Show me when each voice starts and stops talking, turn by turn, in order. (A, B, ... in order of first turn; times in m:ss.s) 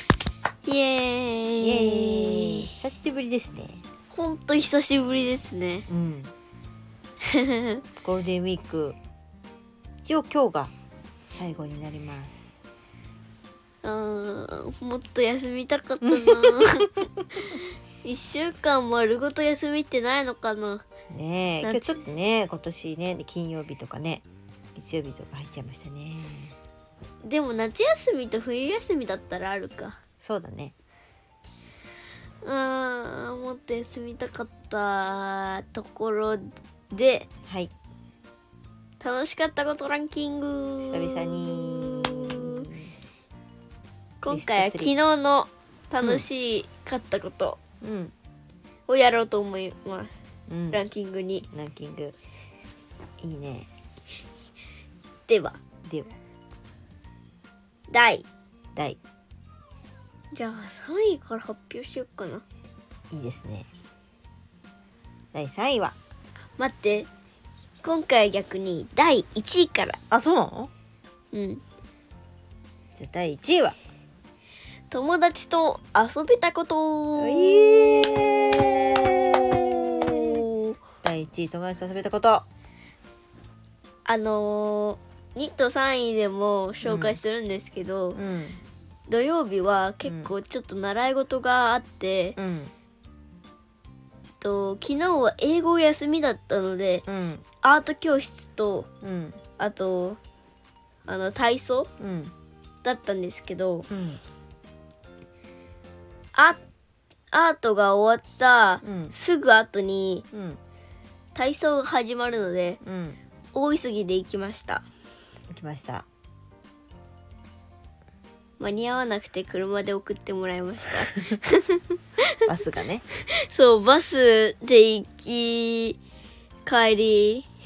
0:00.6-0:02.7 A
0:01.6-0:03.8 B
0:04.1-0:05.8 A
0:05.9-0:06.3 B
0:07.2-0:07.8 A
0:08.0-0:09.0 B
0:10.0-0:10.7 B
0:11.3-0:12.5 B
0:13.8-0:17.0 A
0:16.0-0:16.9 B
0:17.5-0:20.8 A
0:21.1-0:26.5 B
0:21.6-0:22.0 A
0:27.2-0:30.0 A
0:30.2-0:30.7 B
0:32.4-0:37.3 A
0:37.5-0:37.7 B
0:39.0-0:42.7 A
0:40.8-0:42.9 B
0:44.2-0:47.6 A
0:44.3-0:44.9 B
0:46.0-0:46.2 B
0:47.8-0:48.1 B
0:48.9-0:50.1 A
0:50.5-0:50.8 B
0:50.7-0:51.4 A
0:51.5-0:52.2 B
0:53.2-0:53.7 B
0:55.3-0:55.6 A
0:55.8-0:56.2 B
0:57.9-0:58.2 A
1:00.3-1:02.4 A
1:03.1-1:03.7 B
1:05.3-1:05.9 B
1:06.6-1:07.1 A
1:07.8-1:10.0 A
1:10.1-1:10.7 B
1:11.3-1:11.6 A
1:13.0-1:13.8 B
1:14.9-1:19.0 A
1:17.2-1:20.4 B
1:19.8-1:20.8 A
1:21.0-1:22.4 B
1:24.0-1:28.2 A
1:26.8-1:27.2 B
1:28.1-1:28.6 B
1:29.1-1:32.4 A
1:30.0-1:30.3 B
1:32.4-1:32.7 B
1:34.4-1:37.0 A
1:37.1-1:37.4 B
1:37.6-1:38.9 A
1:39.0-1:39.4 B
1:39.6-1:40.2 A
1:41.0-1:41.9 A
1:42.0-1:42.3 B
1:42.8-1:43.9 A
1:43.9-1:44.2 B
1:46.3-1:46.6 A
1:47.3-1:50.2 A
1:48.8-1:49.1 B
1:50.3-1:50.6 B
1:51.3-1:52.8 A
1:52.8-1:53.2 B
1:53.5-1:54.8 A
1:55.5-1:56.0 B
1:58.6-2:02.2 A
2:02.4-2:03.0 B
2:03.3-2:06.0 A
2:06.6-2:07.5 A